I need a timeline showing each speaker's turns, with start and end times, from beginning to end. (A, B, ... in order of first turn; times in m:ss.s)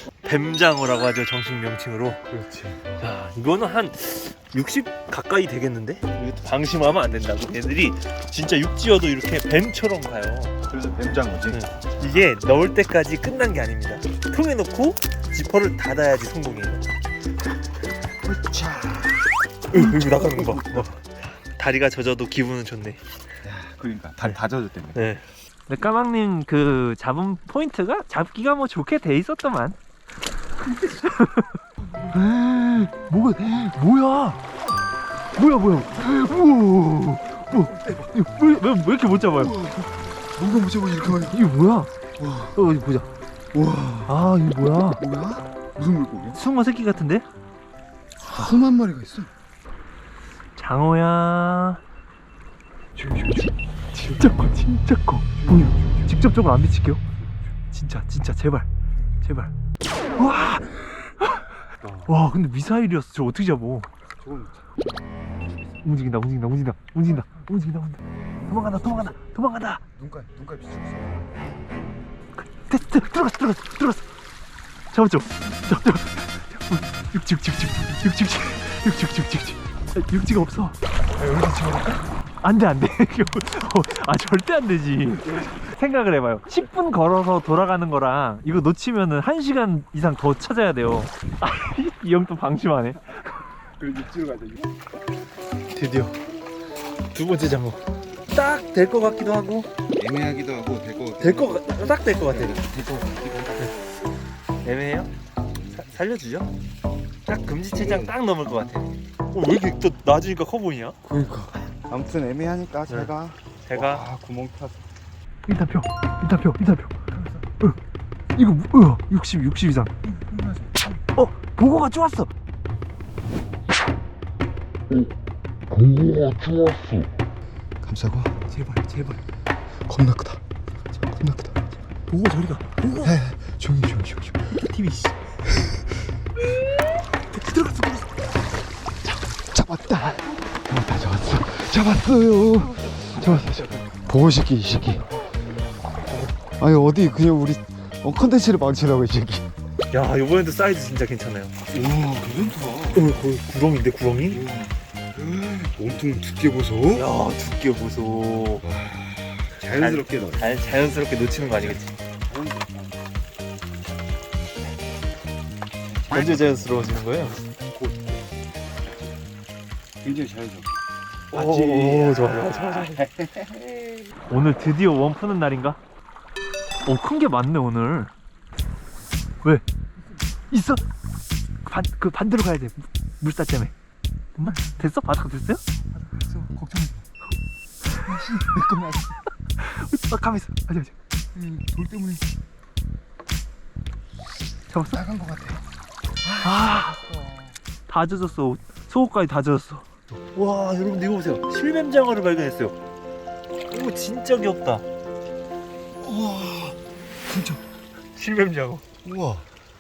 0:00.2-0:02.2 A
0:02.3-0:02.8 B
0:03.0-0:10.5 A
0:10.6-0:11.6 B
0:11.5-0:16.8 A
0:18.2-0:20.8 B
0:19.7-0:23.0 A
0:23.4-0:25.1 B
0:24.9-0:29.8 A
0:30.6-0:34.4 A
0:35.3-0:39.6 A
0:37.5-0:38.2 B
0:39.4-0:41.4 B
0:41.1-0:41.9 A
0:42.2-0:42.6 B
0:42.5-0:43.1 A
0:43.5-0:44.4 B
0:44.1-0:45.0 A
0:44.9-0:46.4 B
0:46.3-0:47.2 A
0:48.2-0:49.3 B
0:50.6-0:51.8 A
0:53.0-0:53.5 B
0:53.2-0:57.0 A
0:55.4-0:56.3 B
0:57.7-0:58.7 A
0:59.2-0:59.5 A
1:00.2-1:01.5 A
1:01.8-1:02.2 B
1:02.1-1:03.9 A
1:04.2-1:04.8 B
1:05.8-1:09.8 A
1:07.0-1:07.5 B
1:08.4-1:09.2 B
1:10.0-1:11.4 B
1:12.4-1:14.1 A
1:14.9-1:20.7 A
1:21.2-1:22.0 B
1:22.4-1:33.4 A
1:33.8-1:34.7 B
1:35.7-1:36.2 A
1:37.1-1:39.7 A
1:40.0-1:43.7 B
1:41.2-1:42.6 A
1:44.6-1:45.1 A
1:45.5-1:45.9 B
1:45.7-1:46.5 A
1:47.2-1:51.0 A
1:47.7-1:48.2 B
1:51.0-1:54.9 B
1:53.6-1:54.0 A
1:55.4-1:57.0 A
1:58.4-1:59.9 A
2:00.0-2:01.0 B
2:01.1-2:02.3 A
2:06.0-2:06.8 B
2:07.8-2:08.4 B
2:08.5-2:09.2 A
2:09.8-2:11.6 B
2:12.1-2:13.1 A
2:13.0-2:14.5 B
2:14.5-2:15.1 A
2:17.3-2:18.1 A
2:19.4-2:25.1 B
2:23.2-2:23.6 A
2:26.6-2:29.5 B
2:29.9-2:31.5 A
2:31.7-2:33.1 B
2:32.9-2:34.4 A
2:34.2-2:37.1 B
2:36.9-2:38.6 A
2:38.6-2:40.8 B
2:39.7-2:42.0 A
2:41.6-2:43.0 B
2:45.9-2:46.4 B
2:46.1-2:47.4 A
2:47.6-2:48.3 B
2:50.0-2:50.7 B
2:51.3-2:53.9 B
2:51.3-2:53.0 A
2:54.3-2:55.8 A
2:56.8-2:58.1 A
3:00.5-3:00.8 A
3:01.6-3:03.7 A
3:04.4-3:05.6 A
3:04.4-3:04.8 B
3:05.9-3:07.0 B
3:08.0-3:09.2 B
3:09.6-3:10.9 A
3:11.3-3:12.4 B
3:14.7-3:15.0 A
3:14.9-3:15.6 B
3:16.2-3:17.6 B
3:16.4-3:17.0 A
3:17.9-3:22.8 A
3:23.7-3:24.8 A
3:26.0-3:27.6 B
3:28.1-3:28.8 A
3:29.0-3:29.4 B